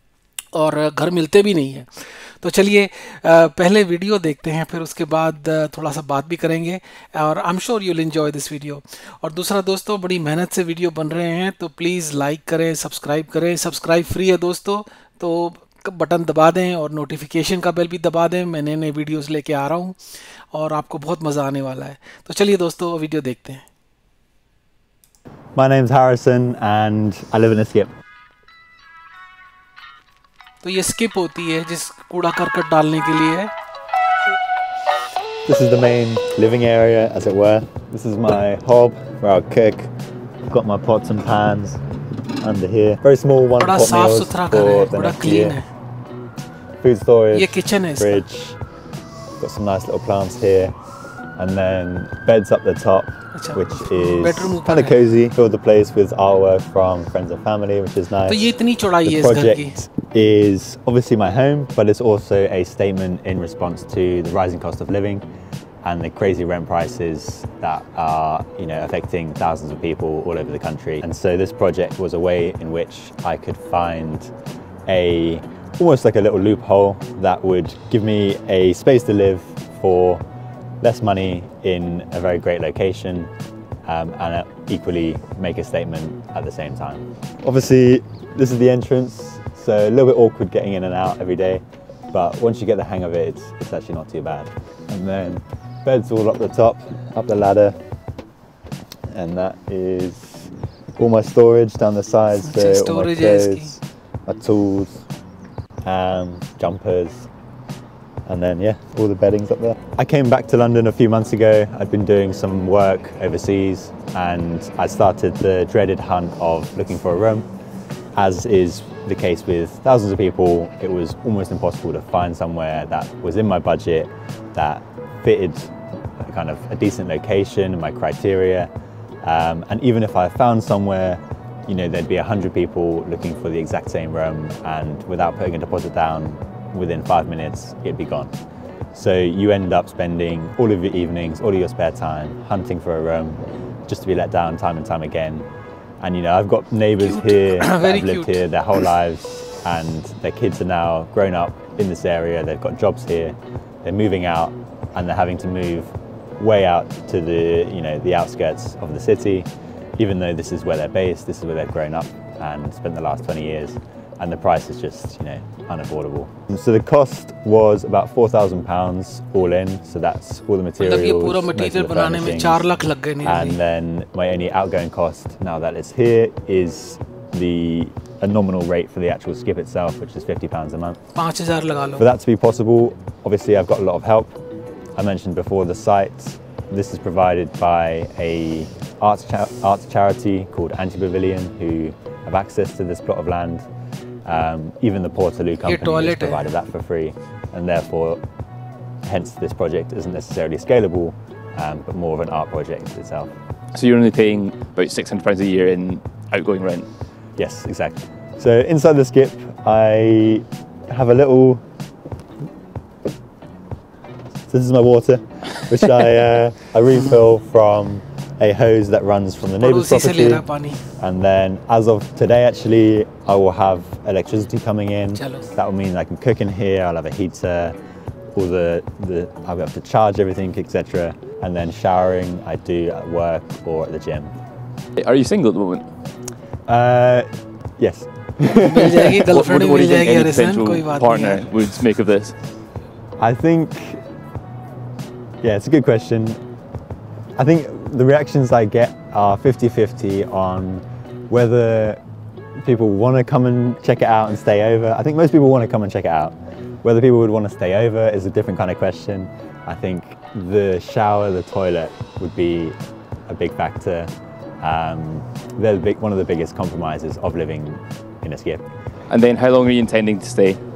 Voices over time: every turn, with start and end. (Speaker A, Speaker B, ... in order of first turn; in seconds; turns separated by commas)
Speaker A: 0.5-20.0, Speaker A: 20.5-23.6, Speaker B: 25.6-27.9, Speaker A: 30.6-33.5, Speaker B: 35.5-39.9, Speaker B: 40.5-41.8, Speaker B: 42.4-45.6, Speaker A: 43.6-45.7, Speaker B: 46.8-48.6, Speaker A: 47.3-48.2, Speaker B: 49.4-50.7, Speaker B: 51.4-58.5, Speaker A: 53.3-55.0, Speaker A: 58.3-59.8, Speaker B: 59.0-65.2, Speaker B: 65.8-74.3, Speaker B: 74.9-80.2, Speaker B: 80.8-83.3, Speaker B: 83.9-97.8, Speaker B: 99.1-105.0, Speaker A: 102.3-103.8, Speaker B: 105.8-107.3, Speaker B: 108.3-117.5, Speaker B: 118.2-128.7, Speaker B: 129.2-138.3, Speaker B: 138.9-145.5, Speaker B: 146.0-172.7, Speaker A: 147.0-148.5, Speaker A: 170.8-173.6, Speaker B: 173.2-181.0, Speaker A: 181.2-182.1, Speaker B: 182.0-184.4, Speaker B: 185.0-193.7, Speaker B: 194.2-198.2, Speaker A: 195.6-196.5, Speaker B: 199.0-203.3, Speaker C: 203.7-206.9, Speaker B: 207.4-211.6, Speaker B: 214.5-220.4, Speaker A: 219.6-220.8, Speaker B: 221.0-227.8, Speaker A: 225.2-225.5, Speaker B: 228.3-234.3, Speaker C: 235.0-235.9, Speaker B: 236.7-237.3, Speaker B: 237.8-239.3, Speaker A: 238.5-241.5, Speaker C: 239.2-242.4, Speaker B: 243.2-244.0, Speaker B: 245.4-246.4, Speaker B: 247.4-252.0, Speaker B: 252.6-262.8, Speaker B: 263.3-264.1, Speaker B: 264.6-268.6, Speaker C: 269.1-270.6